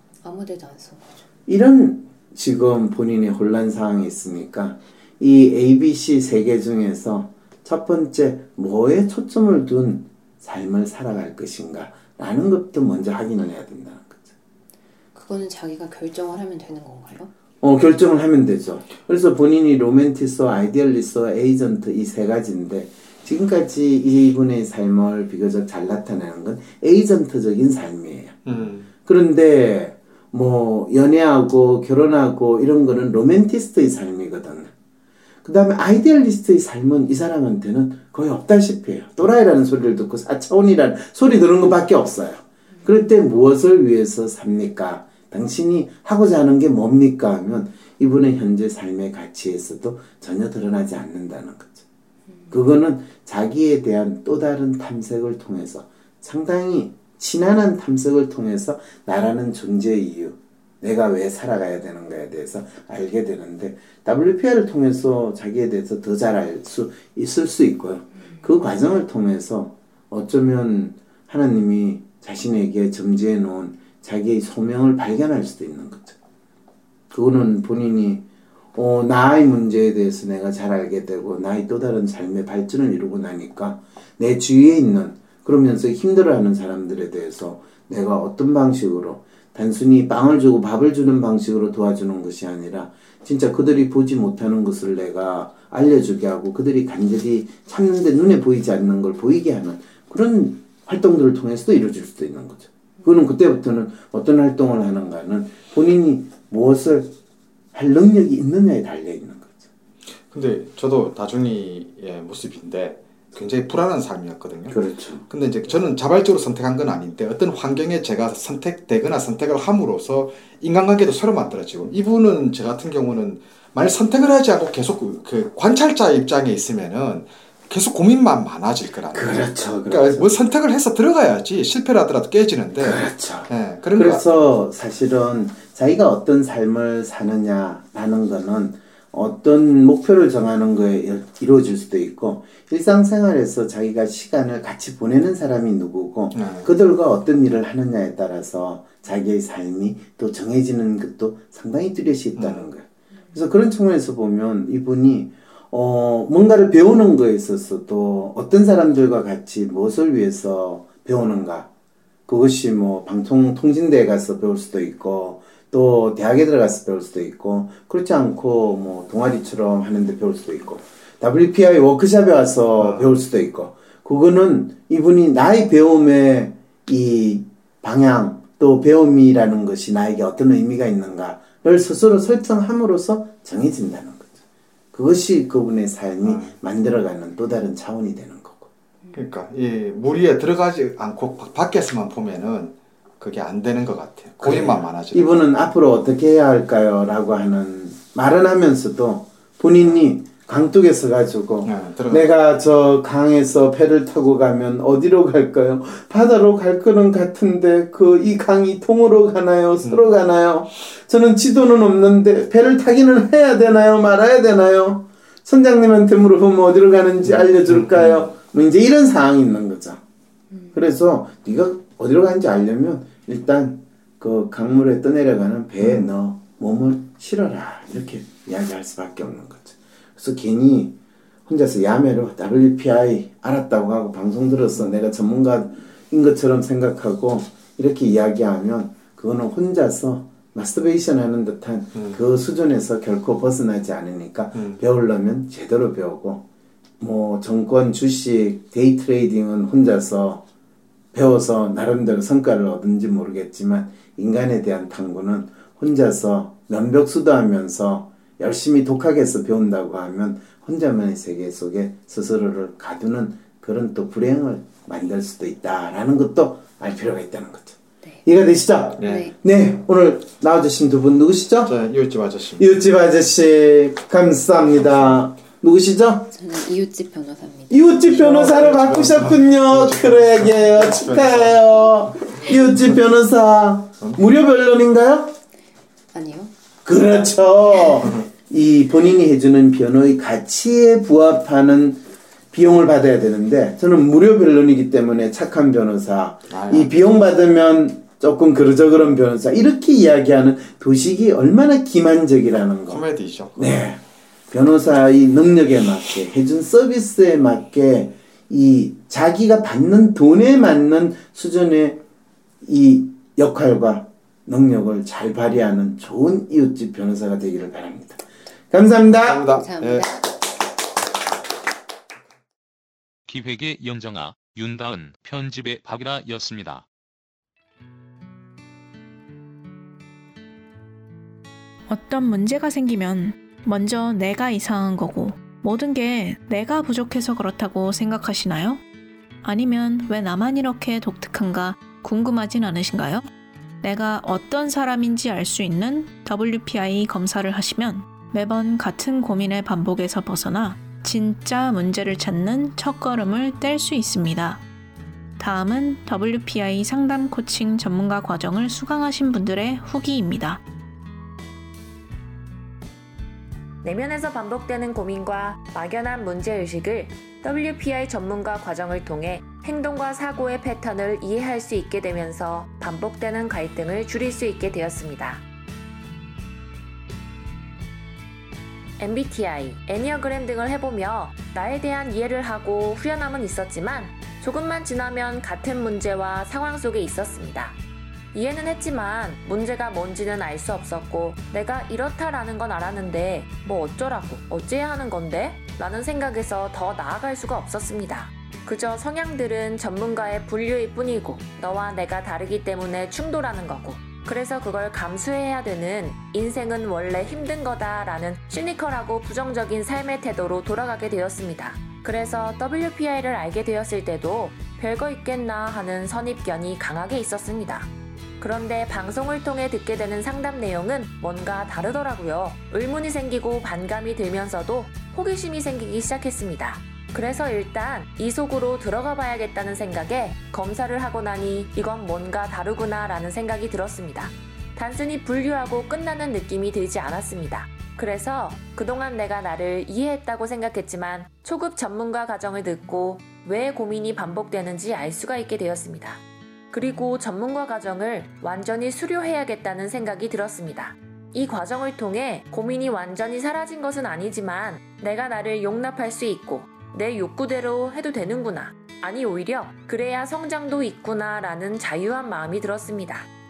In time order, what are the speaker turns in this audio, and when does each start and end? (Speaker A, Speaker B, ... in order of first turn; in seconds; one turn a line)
Speaker A: 0.2-1.2
Speaker B: 1.5-14.3
Speaker A: 15.1-17.3
Speaker B: 17.6-28.4
Speaker C: 28.4-28.9
Speaker B: 29.0-34.7
Speaker B: 35.4-51.8
Speaker A: 42.7-43.0
Speaker A: 52.3-52.6
Speaker B: 52.5-76.2
Speaker B: 77.1-78.2
Speaker B: 78.7-107.1
Speaker B: 107.7-109.7
Speaker C: 110.3-114.8
Speaker B: 114.7-115.2
Speaker C: 115.3-134.5
Speaker B: 129.1-130.3
Speaker B: 132.8-161.7
Speaker C: 146.3-146.7
Speaker C: 152.4-152.7
Speaker B: 162.3-184.3
Speaker C: 172.8-173.1
Speaker B: 184.9-188.7
Speaker C: 186.2-186.6
Speaker C: 189.1-195.4
Speaker B: 194.4-220.0
Speaker C: 201.6-202.3
Speaker C: 209.8-210.1
Speaker C: 217.2-218.3
Speaker A: 220.5-220.8
Speaker B: 220.7-230.9
Speaker C: 225.8-226.1
Speaker B: 231.5-246.4
Speaker B: 247.0-250.4
Speaker B: 251.1-271.7
Speaker C: 269.0-269.3
Speaker A: 269.0-269.3
Speaker C: 271.6-272.7
Speaker B: 272.6-276.3
Speaker A: 276.3-278.1
Speaker B: 277.7-285.4
Speaker C: 278.1-281.6
Speaker A: 286.1-286.5
Speaker B: 286.8-303.0
Speaker C: 296.5-296.9
Speaker C: 302.9-303.7
Speaker B: 303.6-312.0
Speaker B: 312.6-319.5
Speaker C: 319.2-320.1
Speaker A: 319.5-320.1
Speaker D: 323.3-326.9
Speaker E: 331.9-338.8
Speaker E: 339.4-343.3
Speaker E: 343.8-354.6
Speaker E: 355.4-360.6
Speaker F: 363.8-375.4
Speaker F: 379.0-387.8
Speaker F: 388.3-417.9
Speaker F: 418.4-463.3